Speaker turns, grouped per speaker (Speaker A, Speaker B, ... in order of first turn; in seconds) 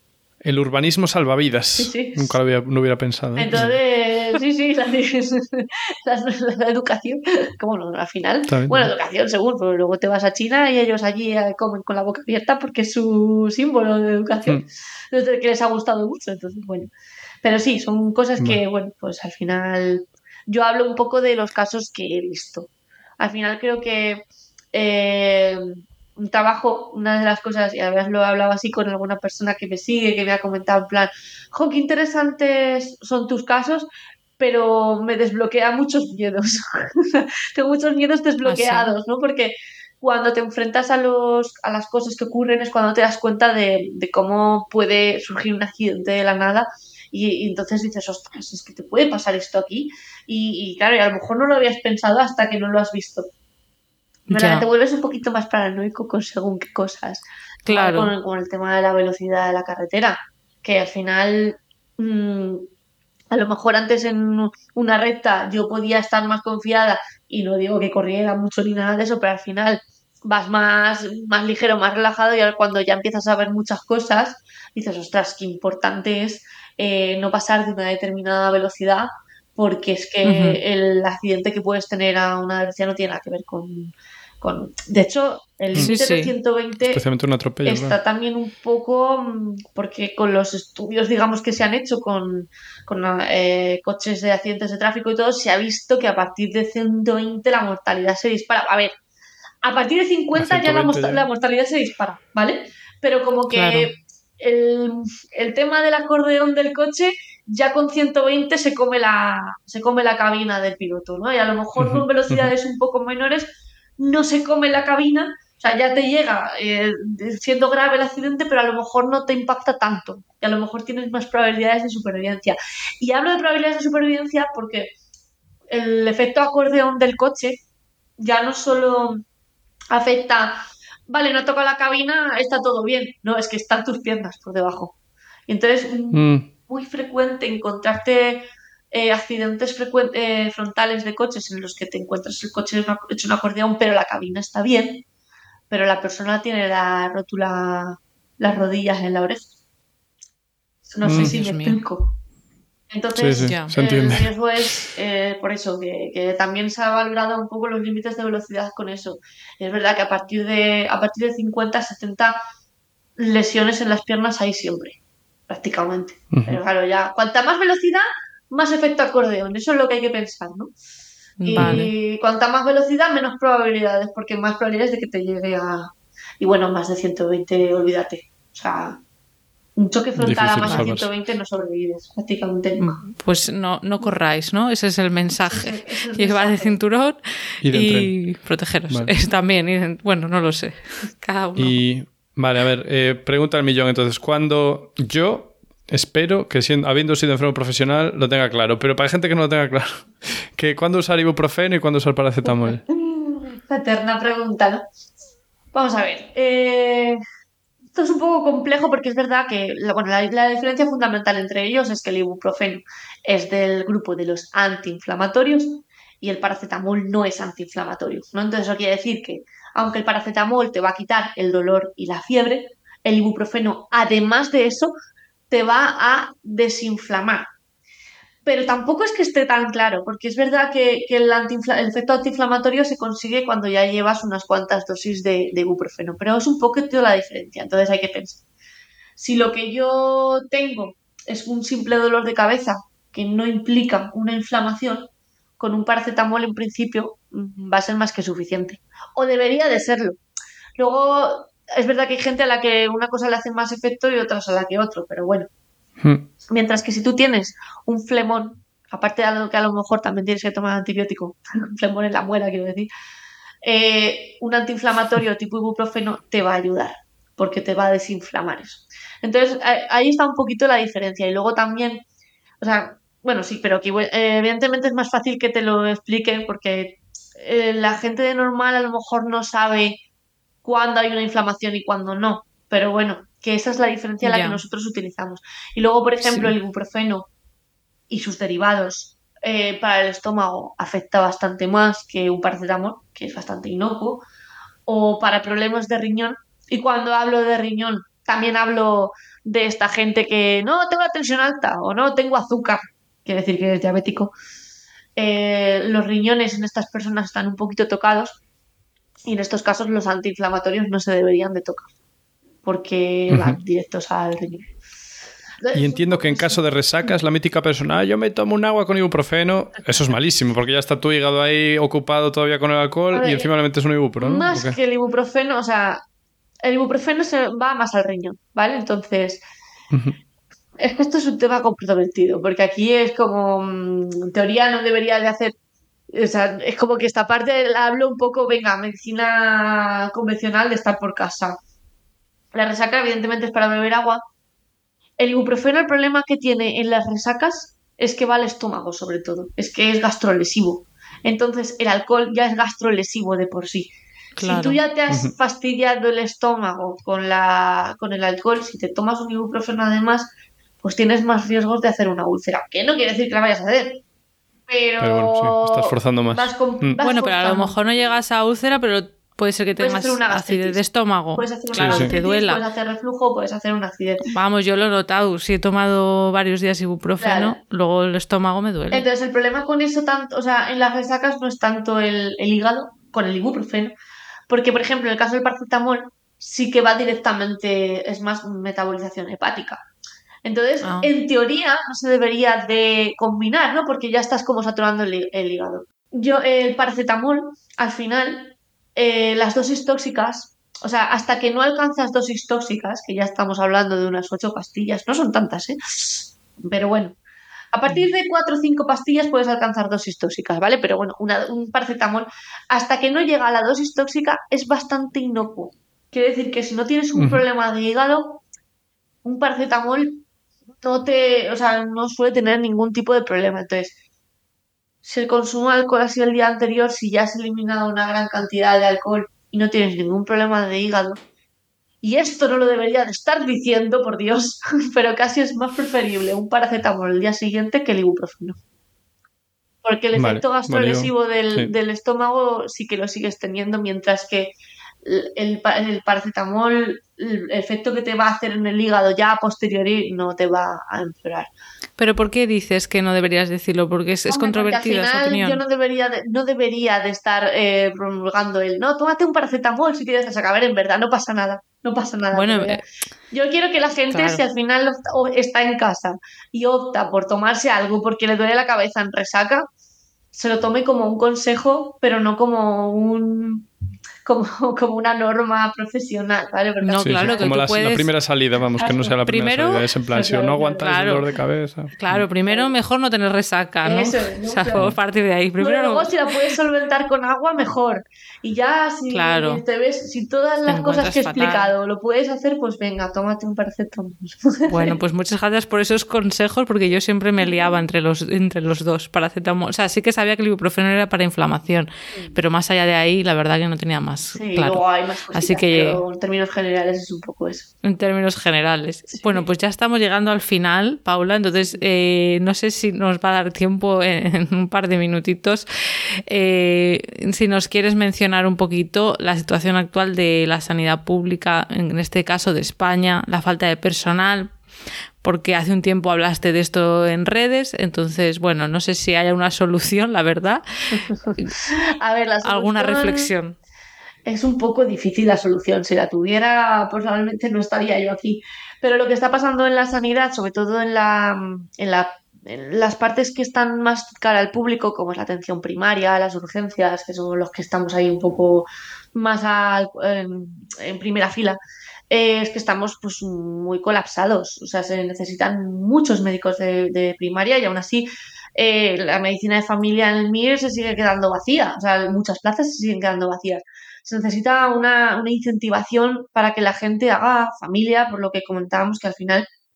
Speaker A: 0.4-3.8, 8.5-8.9, 86.8-88.0, 100.4-101.3, 111.8-112.5, 136.1-136.5, 151.0-151.3, 153.2-154.8, 166.3-166.6, 171.6-171.9, 180.2-181.1, 187.6-188.2, 191.6-202.8, 256.0-256.3, 313.3-313.6, 315.7-324.8, 329.9-330.2, 355.1-355.3, 365.0-367.0, 371.8-372.1, 417.1-417.4, 440.1-441.7, 477.0-482.2
Speaker B: 1.8-2.4, 3.4-16.9, 17.4-22.7, 23.2-24.2, 24.7-33.9, 34.4-53.3, 54.3-62.6, 63.3-87.0, 87.6-98.9, 99.6-124.9, 125.7-127.6, 128.2-129.2, 129.9-134.9, 135.5-145.0, 145.7-149.5, 150.9-152.2, 152.9-162.4, 163.2-165.0, 165.5-170.7, 171.4-179.0, 179.8-183.0, 185.5-186.8, 202.4-204.8, 205.7-207.2, 207.9-224.9, 225.5-227.5, 228.5-238.4, 239.2-250.2, 250.8-255.5, 256.5-262.9, 263.6-272.0, 272.6-280.0, 280.6-287.3, 288.1-294.2, 294.9-304.3, 305.2-308.4, 309.3-311.9, 312.6-314.7, 315.6-316.6, 323.1-323.5, 324.2-326.0, 326.6-329.4, 330.8-335.5, 336.1-341.6, 342.5-344.2, 345.2-353.9, 354.4-360.3, 360.8-364.0, 364.7-368.2, 369.8-370.8, 371.4-374.3, 377.2-377.6, 378.9-383.9, 384.5-389.8, 390.4-407.2, 407.7-418.4, 419.2-420.2, 420.8-423.9, 425.0-431.2, 432.0-438.6, 439.8-451.5, 454.3-469.7, 470.3-473.7, 474.2-477.5, 478.8-479.2, 480.1-480.9, 482.5-482.7, 483.8-484.9, 485.6-495.0, 497.4-497.8, 504.4-507.7, 509.2-509.4, 530.9-533.3, 534.3-569.5
Speaker C: 38.4-38.9, 54.3-54.6, 57.6-58.1, 80.2-80.6, 85.8-86.3, 103.5-103.9, 151.1-151.8, 153.4-153.7, 171.4-171.9, 180.6-180.9, 182.8-191.8, 284.2-284.6, 286.2-286.5, 354.4-354.8, 367.0-372.6, 374.3-379.1, 390.8-391.1, 452.0-455.6, 462.3-462.8, 464.1-464.4, 476.8-478.1, 479.2-479.9, 480.8-481.3, 482.0-486.4, 489.1-489.6, 490.7-491.7, 494.7-506.0, 507.8-524.5, 525.2-531.5, 532.4-533.6